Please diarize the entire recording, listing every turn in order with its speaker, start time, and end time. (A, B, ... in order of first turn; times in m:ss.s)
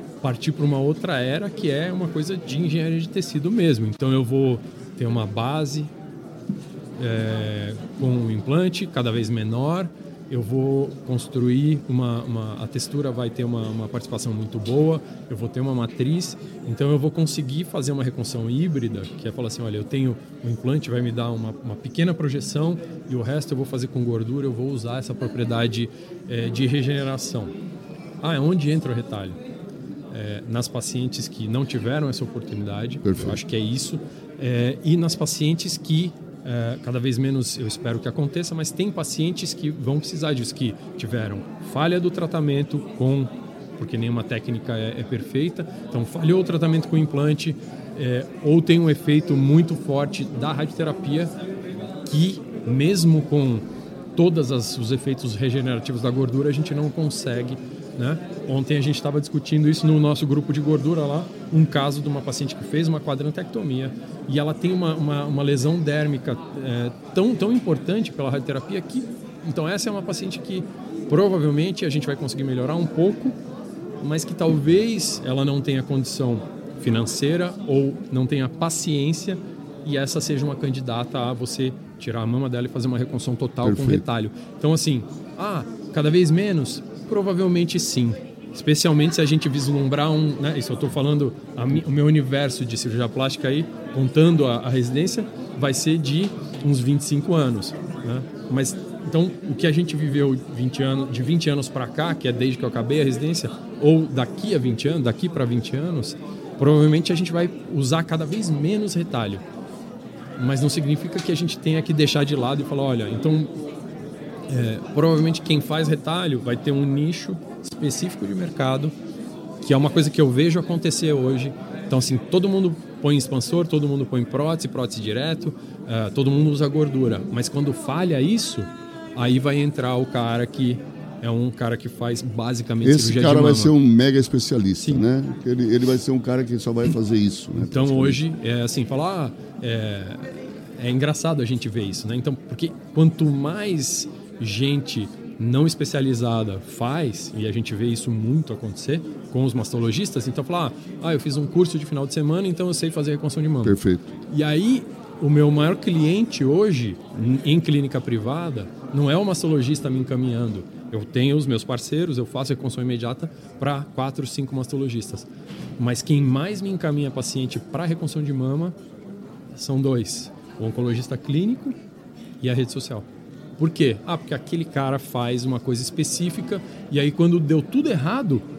0:00.2-0:05.9 A
0:07.0-0:27.5 A
0:28.2-0:29.4 A
0:30.1-0:51.3 A
0:33.0-0:33.4 B
0:52.1-0:53.6 A
0:54.2-1:13.4 A
1:14.0-1:49.4 A
1:23.6-1:24.0 B
1:50.4-1:53.5 A
1:54.5-1:58.9 A
1:59.6-2:13.7 A
2:12.8-2:18.2 B
2:14.8-2:15.0 A
2:17.6-2:33.8 A
2:33.6-2:34.1 B
2:34.3-2:45.3 A
2:45.8-2:48.8 A
2:49.6-2:51.8 A
2:52.4-2:53.1 A
2:53.6-2:58.4 A